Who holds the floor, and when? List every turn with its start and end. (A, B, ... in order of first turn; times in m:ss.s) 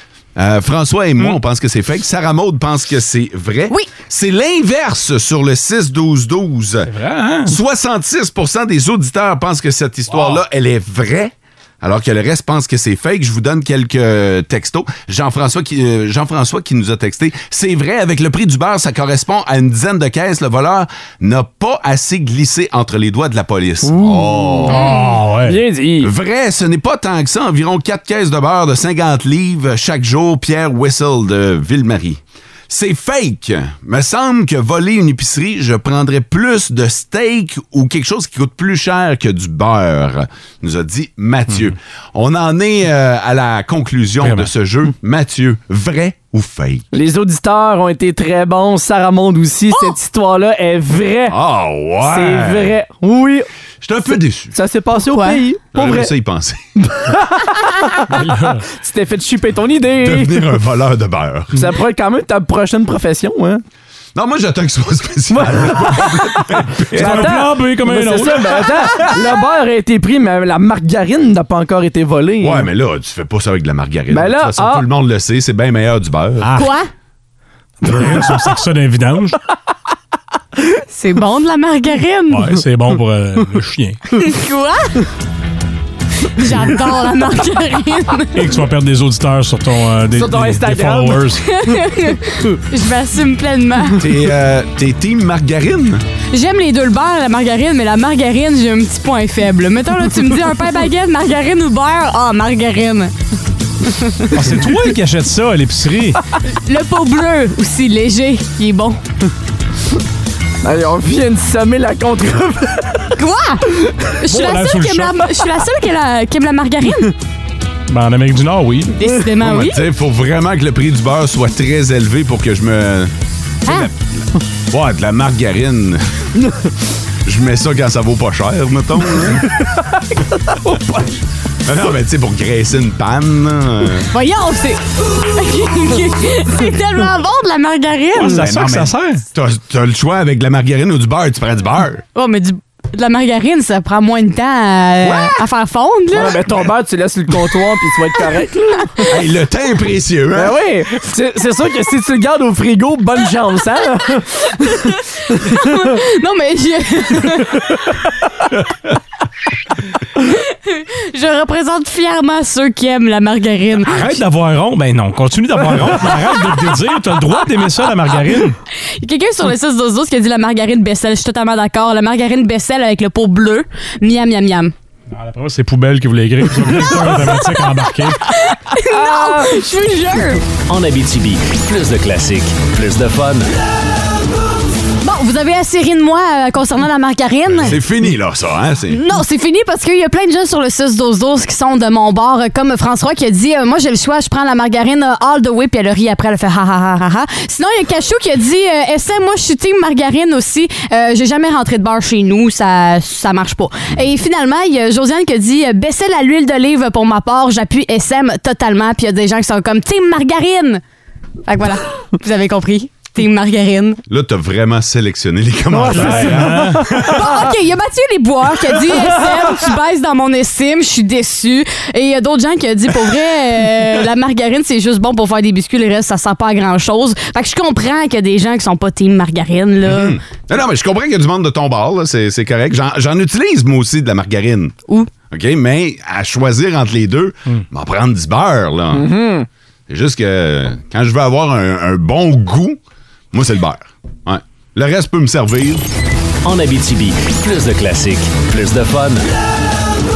0:00.4-0:06.9 A
0:06.9-0:07.5 B
0:07.4-0:24.8 A
0:10.1-0:10.4 B
0:23.8-0:24.8 C
0:24.7-0:25.6 B
0:24.7-0:25.1 D
0:25.4-0:26.1 C
0:26.0-0:46.8 A
0:44.2-0:44.5 B
0:46.9-0:51.4 C
0:51.3-0:52.8 A
0:52.0-0:53.5 C
0:53.8-0:54.6 A
0:54.5-0:56.1 C
0:55.1-0:55.4 D
0:55.7-0:56.6 A
0:56.8-1:00.5 C
0:58.1-0:58.6 B
1:00.0-1:01.7 A
1:01.5-1:03.6 C
1:04.1-1:07.5 A
1:05.3-1:06.4 C
1:06.9-1:09.1 B
1:06.9-1:12.7 C
1:08.6-1:09.2 A
1:12.4-1:16.5 A
1:14.1-1:14.8 C
1:16.5-1:16.9 D
1:17.8-1:19.4 B
1:20.9-1:22.5 D
1:22.3-1:24.0 B
1:24.2-1:25.0 D
1:26.4-1:28.4 D
1:28.3-1:31.4 B
1:30.1-1:31.3 C
1:31.5-1:34.0 D
1:34.0-1:36.0 A
1:36.3-1:43.1 D
1:43.8-1:44.3 D
1:44.3-1:46.2 B
1:46.5-1:49.0 D
1:50.6-1:53.1 C
1:53.2-1:53.7 D
1:54.2-1:57.1 D
1:54.3-1:55.2 B
1:57.9-1:58.9 B
1:58.9-1:59.8 D
1:59.4-2:03.1 A
2:03.7-2:06.0 A
2:07.2-2:09.5 A
2:11.6-2:14.1 A
2:14.1-2:18.4 D
2:18.2-2:19.2 B
2:18.2-2:22.0 A
2:22.1-2:26.4 D
2:26.1-2:29.1 C
2:29.1-2:30.6 A
2:30.3-2:34.8 C
2:34.7-2:37.6 D
2:40.2-2:44.2 D
2:43.8-2:48.6 B
2:49.0-2:54.7 D
2:55.1-2:58.2 B
2:58.3-3:00.4 D
2:58.8-2:59.6 C
3:00.7-3:03.5 E
3:05.0-3:07.8 D
3:07.6-3:09.0 A
3:08.9-3:30.8 D
3:31.5-3:34.0 D
3:34.1-3:37.2 A
3:35.7-3:37.1 C
3:35.9-3:37.0 B
3:37.0-3:50.2 D
3:49.8-3:54.7 A
3:55.3-3:59.1 A
3:58.9-3:59.5 C
3:59.9-4:02.8 A
4:03.3-4:05.8 A
4:06.4-4:09.3 E